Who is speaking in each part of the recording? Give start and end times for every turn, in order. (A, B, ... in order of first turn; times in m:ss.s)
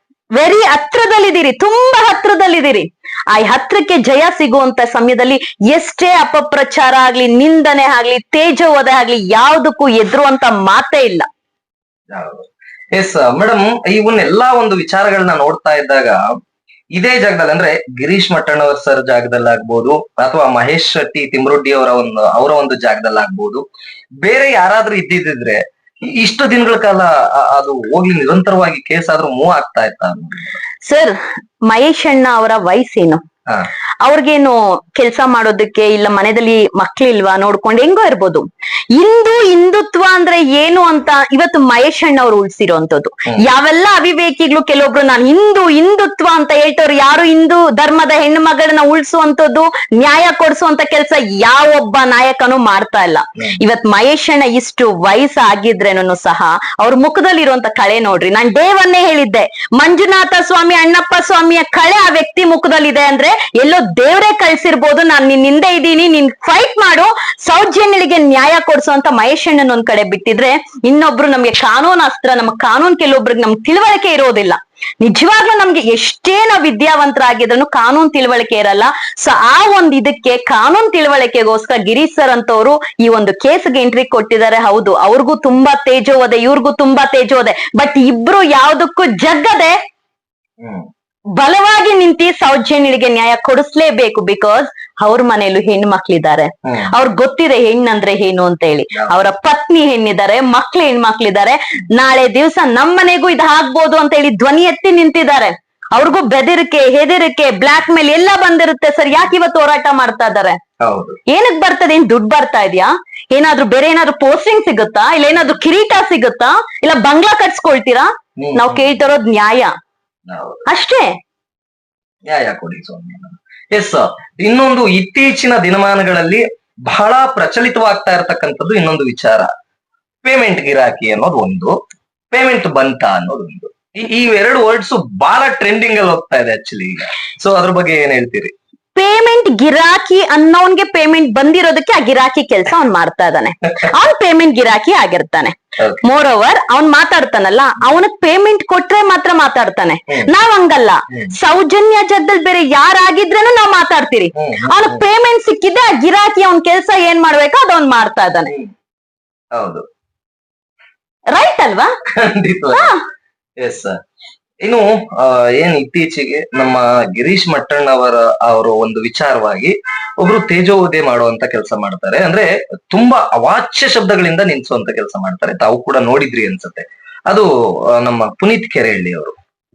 0:00.3-0:11.3 A
0:12.1-0:16.3 B
0:16.9-0:23.6 B
0:24.2-0:30.6 B
0:30.8-0:33.2 A
0:34.0-1:29.8 A
1:30.6-1:30.9 B
1:31.4-1:50.6 A
1:36.6-1:36.9 B
1:38.9-1:39.2 B
1:50.8-1:51.2 B
1:51.3-1:59.7 A
1:58.4-1:59.0 B
2:00.3-2:00.6 B
2:00.7-2:01.1 A
2:02.3-2:09.5 B
2:10.2-2:11.8 B
2:12.3-2:18.5 B
2:18.9-2:38.5 A
2:34.3-2:35.0 B
2:39.5-2:39.8 B
2:41.3-2:41.9 A
2:42.1-2:42.9 B
2:42.7-2:43.0 A
2:43.6-2:44.0 B
2:44.6-2:59.4 B